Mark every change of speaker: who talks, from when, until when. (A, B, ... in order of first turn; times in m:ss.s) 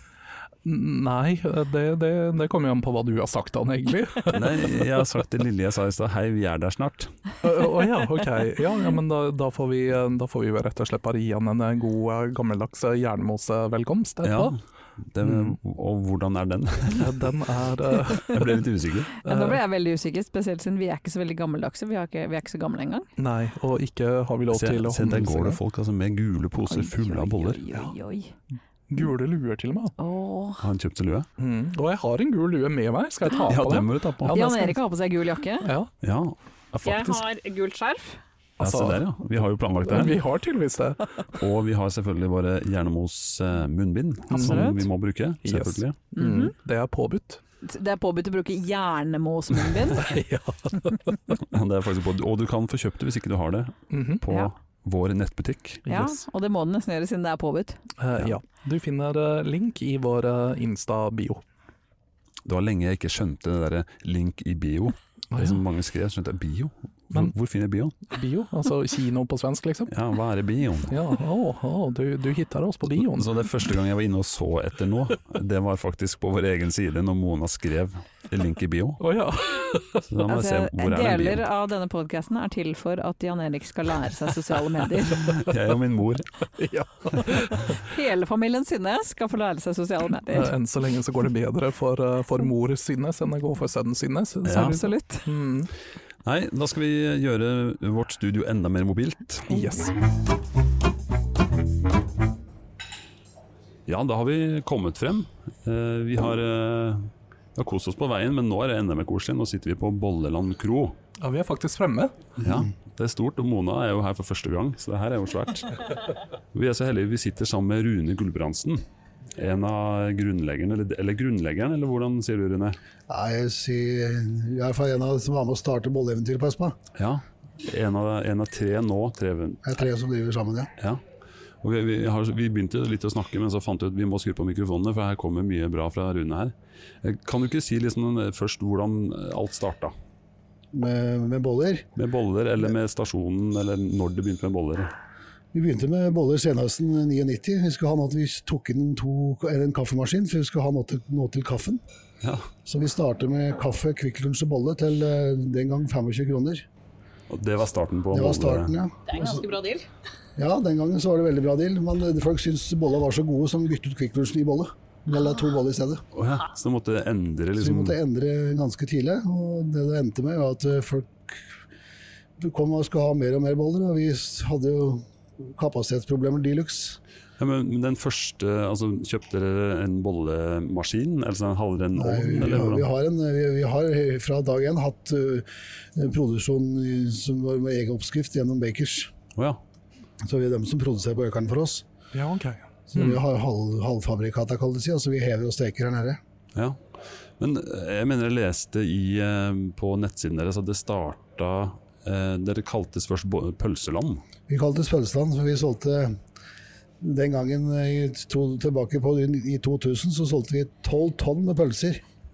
0:00.6-0:04.8 A
0:04.3-0:07.1 B
0:07.4-0:14.6 A
0:14.2-0:14.6 B
0:15.1-0:17.3 B
0:15.2-0:15.6 A
0:17.0-0:18.6 A
0:18.2-0:19.1 B
0:19.2-0:23.1 C
0:19.2-0:19.6 A
0:23.2-0:25.6 A
0:24.5-0:27.6 B
0:26.7-0:28.3 C
0:28.9-0:29.9 A
0:30.0-0:30.6 C
0:30.6-0:31.3 B
0:31.4-0:34.8 A
0:33.4-0:34.4 B
0:34.3-0:35.7 C
0:35.6-0:35.9 A
0:36.0-0:37.2 B
0:36.8-0:38.2 C
0:38.6-0:39.0 A
0:38.6-0:40.2 B
0:39.9-0:41.0 A
0:41.4-0:46.0 B
0:44.3-0:44.9 C
0:44.3-0:44.8 A
0:45.4-0:47.4 A
0:46.2-0:46.5 C
0:47.6-0:50.2 C
0:49.8-0:51.2 A
0:51.4-0:55.8 B
0:53.9-0:54.2 A
0:55.8-0:56.2 A
0:55.9-0:57.8 C
0:58.0-1:01.4 A
1:02.5-1:08.0 B
1:05.3-1:05.6 A
1:08.1-1:09.9 A
1:09.9-1:11.0 B
1:10.9-1:13.4 A
1:13.0-1:19.0 B
1:19.0-1:20.1 A
1:20.0-1:21.4 B
1:20.2-1:25.4 C
1:25.2-1:26.3 B
1:26.6-1:27.8 A
1:27.7-1:30.6 C
1:30.3-1:35.7 A
1:34.5-1:34.8 B
1:34.5-1:35.3 C
1:36.2-1:39.7 B
1:39.5-1:39.9 A
1:43.9-1:51.0 B
1:51.2-1:52.1 A
1:52.4-1:55.8 B
1:56.5-1:58.8 B
1:59.4-2:02.8 B
2:03.1-2:06.8 D
2:07.0-2:09.7 B
2:09.6-2:10.7 D
2:11.6-2:19.9 B
2:20.7-2:21.9 D
2:22.0-2:24.9 B
2:25.5-2:31.8 D
2:32.2-2:32.5 B
2:32.6-2:36.7 D
2:37.3-2:38.7 B
2:38.1-2:39.4 D
2:39.1-2:39.9 C
2:40.4-2:46.0 D
2:46.1-2:48.0 B
2:47.6-2:51.6 D
2:52.4-2:57.0 D
2:57.4-3:02.9 B
3:02.0-3:09.1 D
3:09.4-3:09.6 B
3:10.2-3:11.8 D
3:12.1-3:13.2 A
3:12.9-3:16.2 D
3:17.4-3:24.2 B
3:24.5-3:26.2 D
3:27.0-3:32.0 D